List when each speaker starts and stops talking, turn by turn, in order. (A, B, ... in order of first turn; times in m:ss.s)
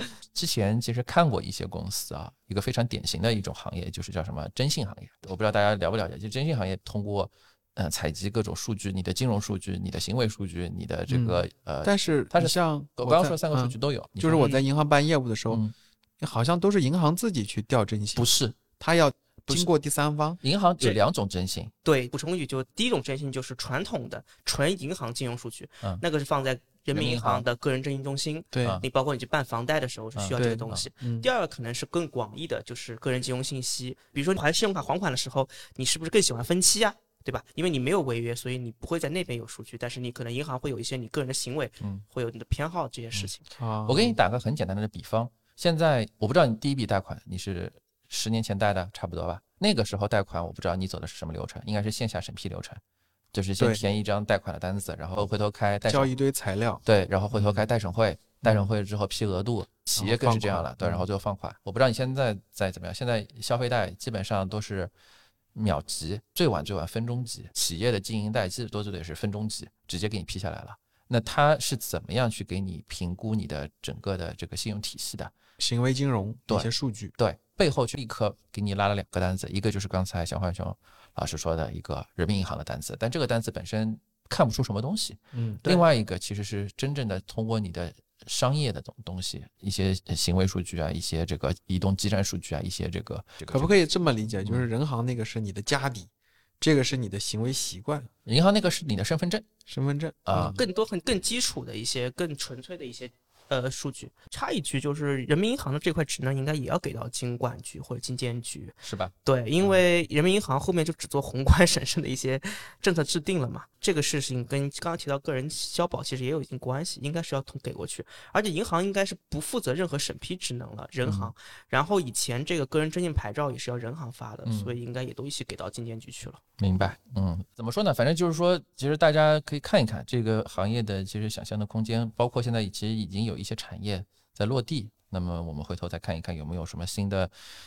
0:00.3-0:14.5 A
0:11.1-0:15.6 B
0:14.3-0:14.6 C
0:16.2-0:20.4 B
0:18.2-0:18.6 A
0:20.4-0:21.7 A
0:21.8-0:43.4 C
0:26.9-0:27.4 A
0:28.5-0:28.8 B
0:30.2-0:30.8 A
0:30.3-0:31.3 B
0:43.6-0:44.2 B
0:43.8-0:52.8 A
0:53.3-0:56.1 A
0:53.6-0:53.8 B
0:55.9-0:56.8 B
0:56.8-1:04.9 A
0:57.3-0:57.6 B
1:00.0-1:01.0 B
1:05.5-1:15.3 A
1:15.6-1:17.1 B
1:16.5-1:33.7 A
1:25.3-1:25.6 B
1:33.5-1:36.1 B
1:36.6-1:38.1 B
1:38.2-1:39.5 A
1:39.7-1:40.6 B
1:40.2-1:40.6 A
1:40.3-2:06.4 C
1:48.8-1:49.8 A
2:01.0-2:01.3 A
2:04.4-2:04.8 A
2:06.6-2:17.3 A